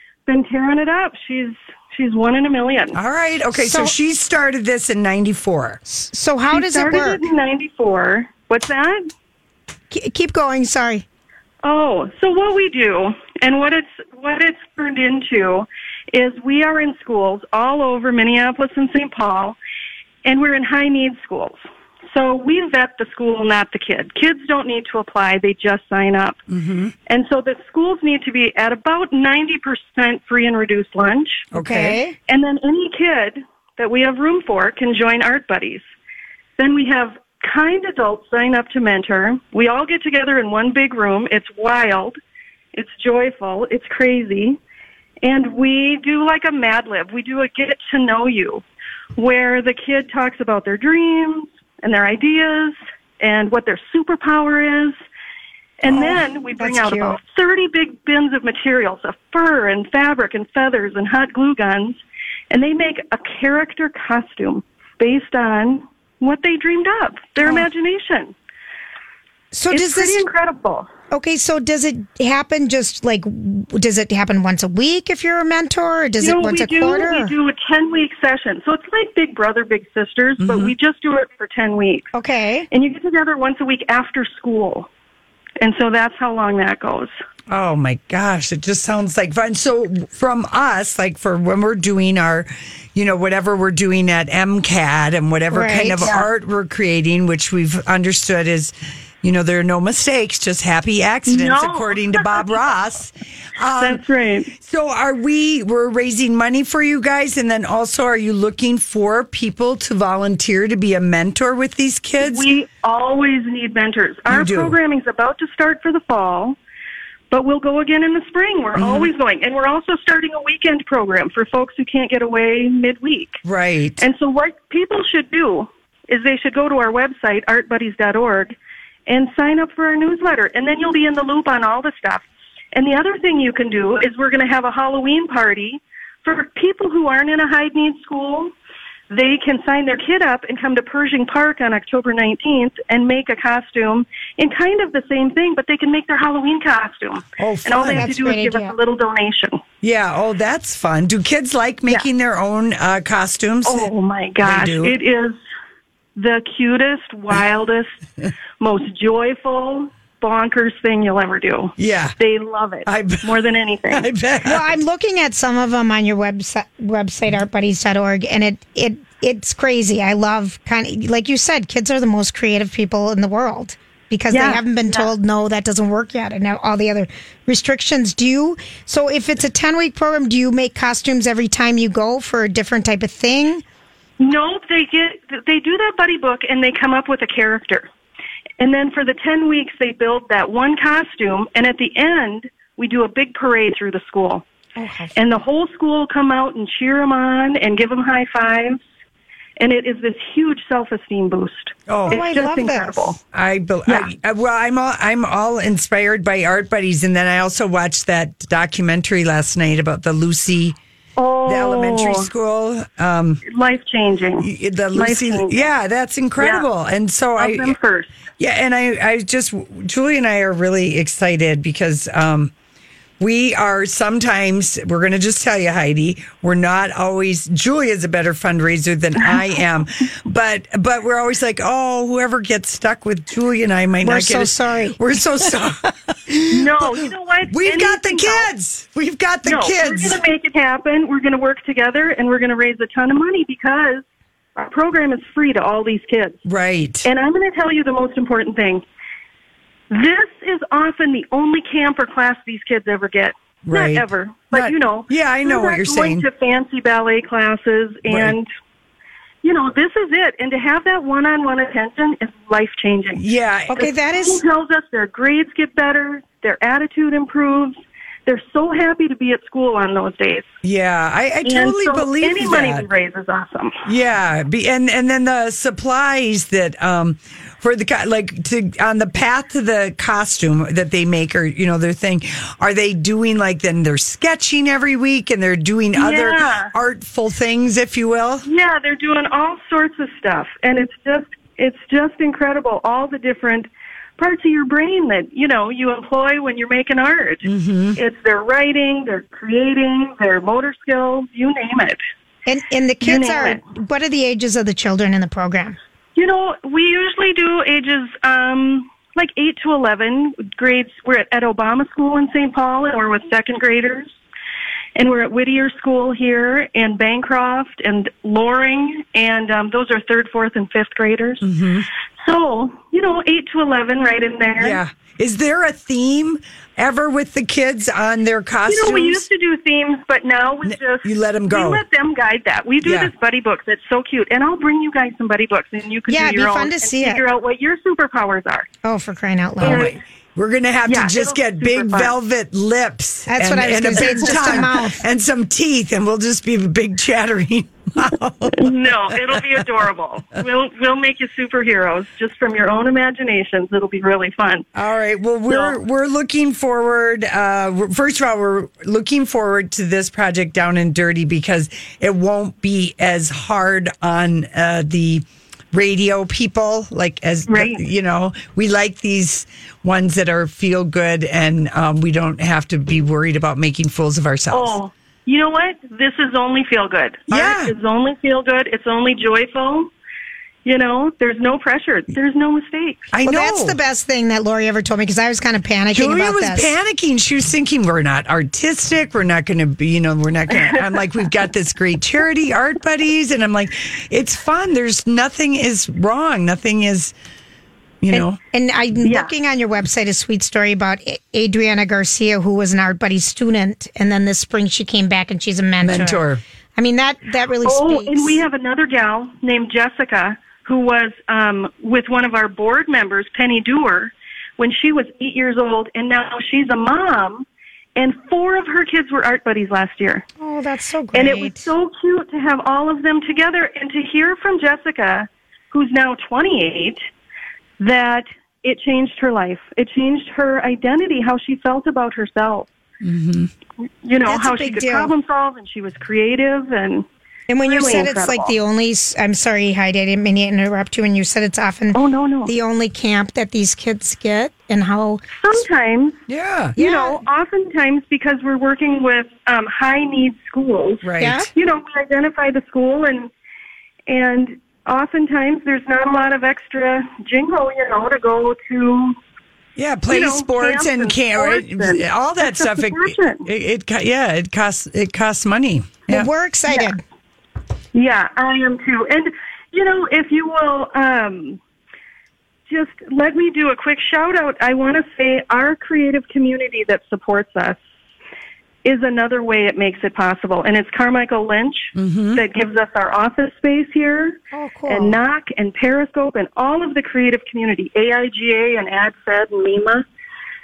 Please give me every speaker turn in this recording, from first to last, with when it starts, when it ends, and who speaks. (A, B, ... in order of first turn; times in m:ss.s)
0:00.3-0:03.0 A
0:02.9-0:05.8 B
0:03.5-0:03.9 C
0:05.9-0:07.2 C
0:06.5-0:09.1 A
0:09.9-0:11.0 C
0:11.6-0:19.6 A
0:20.2-0:21.6 A
0:22.1-0:26.4 A
0:26.5-0:26.9 B
0:27.1-0:31.5 A
0:31.5-0:32.0 B
0:31.5-0:32.2 C
0:32.3-0:35.8 A
0:36.6-0:42.2 A
0:42.7-0:44.6 A
0:45.2-0:48.6 A
0:49.2-0:55.0 A
0:55.8-1:02.0 A
0:55.9-0:57.2 C
1:02.5-1:08.3 A
1:07.4-1:07.7 C
1:09.5-1:10.2 C
1:09.7-1:10.9 A
1:11.1-1:17.3 C
1:16.2-1:22.1 A
1:20.4-1:20.7 B
1:22.1-1:22.7 C
1:22.7-1:24.9 A
1:25.6-1:27.1 A
1:27.5-1:44.0 B
1:35.5-1:36.1 C
1:41.2-1:42.7 A
1:43.8-1:44.5 A
1:44.6-1:52.5 B
1:52.2-1:56.6 A
1:54.3-1:54.8 B
1:57.3-2:03.4 A
1:58.8-1:59.1 B
2:03.4-2:04.0 B
2:04.0-2:08.6 A
2:09.1-2:18.5 A
2:19.1-2:29.6 A
2:27.4-2:28.1 B
2:27.9-2:28.8 C
2:29.8-2:35.0 B
2:33.6-2:35.4 A
2:36.2-2:37.9 A
2:38.6-2:44.1 A
2:41.8-2:42.2 B
2:42.9-2:43.4 B
2:43.9-2:44.8 B
2:44.4-3:03.6 C
2:54.3-2:55.1 A
3:04.2-3:07.9 A
3:08.6-3:14.4 A
3:14.8-3:15.1 C
3:15.1-3:18.8 A
3:19.6-3:23.2 A
3:21.9-3:22.2 B
3:22.1-3:23.1 C
3:23.3-3:30.8 B
3:31.2-3:32.3 A
3:31.4-3:33.4 B
3:33.4-3:35.6 A
3:34.4-3:37.8 B
3:36.4-3:36.7 A
3:37.4-3:38.1 A
3:38.4-3:42.5 B
3:43.2-4:00.2 B
3:54.0-3:55.0 C
3:56.5-3:58.5 A
3:59.4-4:04.0 A
4:04.6-4:06.4 A
4:06.4-4:07.1 B
4:07.0-4:08.8 A
4:09.9-4:18.5 A
4:13.6-4:16.2 B
4:18.1-4:18.4 B
4:19.4-4:23.2 A
4:23.2-4:23.9 B
4:23.7-4:24.4 C
4:23.8-4:30.5 A
4:30.6-4:32.9 B
4:31.4-4:33.8 A
4:33.8-4:48.4 B
4:45.9-4:46.7 A
4:48.4-4:57.4 A
4:57.4-4:58.0 B
4:58.0-5:02.0 A
5:02.5-5:05.8 C
5:03.0-5:03.6 A
5:06.2-5:14.1 A
5:15.0-5:21.4 A
5:21.4-5:21.9 B
5:22.2-5:24.8 A
5:24.6-5:29.3 B
5:28.6-5:38.7 A
5:30.6-5:31.8 B
5:32.8-5:33.1 B
5:36.1-5:37.2 C
5:38.8-5:39.9 C
5:39.6-5:49.4 B
5:39.6-5:40.0 A
5:40.8-5:42.1 A
5:43.3-5:45.0 C
5:44.0-5:44.6 A
5:48.5-5:54.6 A
5:54.7-6:14.8 B
5:55.5-5:55.8 A
6:07.5-6:07.8 A
6:14.5-6:19.9 A
6:17.3-6:17.7 B
6:20.6-6:23.1 A
6:23.1-6:23.8 B
6:23.2-6:26.7 C
6:25.9-6:37.1 B
6:30.5-6:31.0 A
6:38.0-6:38.4 B
6:38.1-6:46.2 C
6:39.0-6:39.3 A
6:45.8-6:46.4 B
6:46.8-6:48.4 C
6:47.6-7:00.2 A
7:00.4-7:01.7 C
7:01.1-7:07.0 A
7:07.8-7:12.7 A
7:13.0-7:13.5 B
7:14.0-7:17.0 A
7:14.2-7:15.1 C
7:17.5-7:25.4 C
7:17.6-7:18.5 A
7:21.9-7:22.5 A
7:25.3-7:26.2 A
7:26.3-7:26.8 B
7:26.8-7:33.3 A
7:26.8-7:27.2 C
7:31.0-7:31.4 B
7:31.2-7:31.5 C
7:34.1-7:39.2 A
7:39.8-7:46.3 B
7:40.1-7:43.4 A
7:46.1-7:47.0 C
7:47.9-7:51.6 A
7:52.7-7:57.8 A
7:58.8-8:10.0 A
8:01.9-8:02.4 B
8:04.5-8:05.2 C